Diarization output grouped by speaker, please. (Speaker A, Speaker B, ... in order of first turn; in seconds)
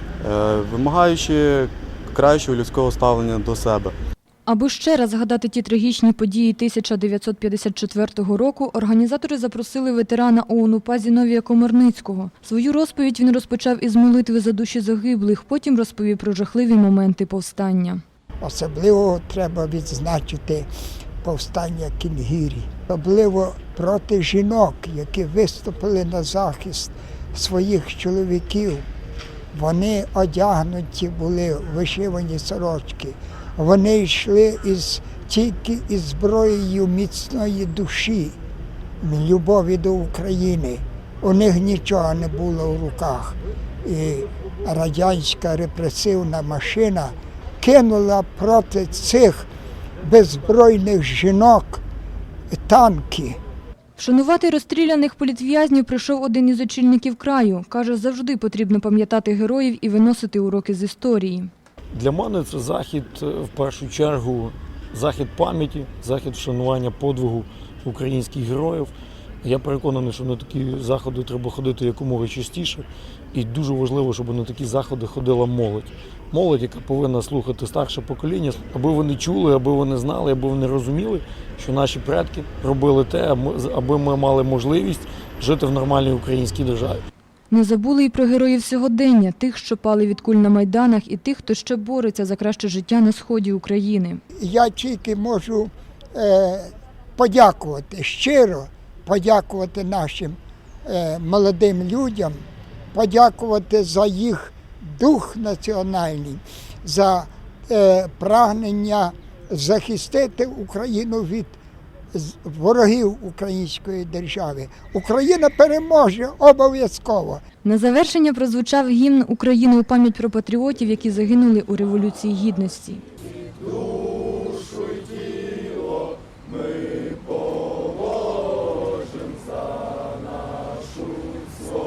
Speaker A: 0.2-3.9
Speaker B: 4.5-18.0, 54.0-61.5, 87.5-94.2, 117.6-123.0
Speaker C: 18.4-20.7, 21.2-28.9, 29.5-38.4, 39.0-49.5, 50.0-51.8, 52.5-53.4, 94.3-102.4, 102.9-111.6, 112.1-117.4
Speaker D: 61.9-87.0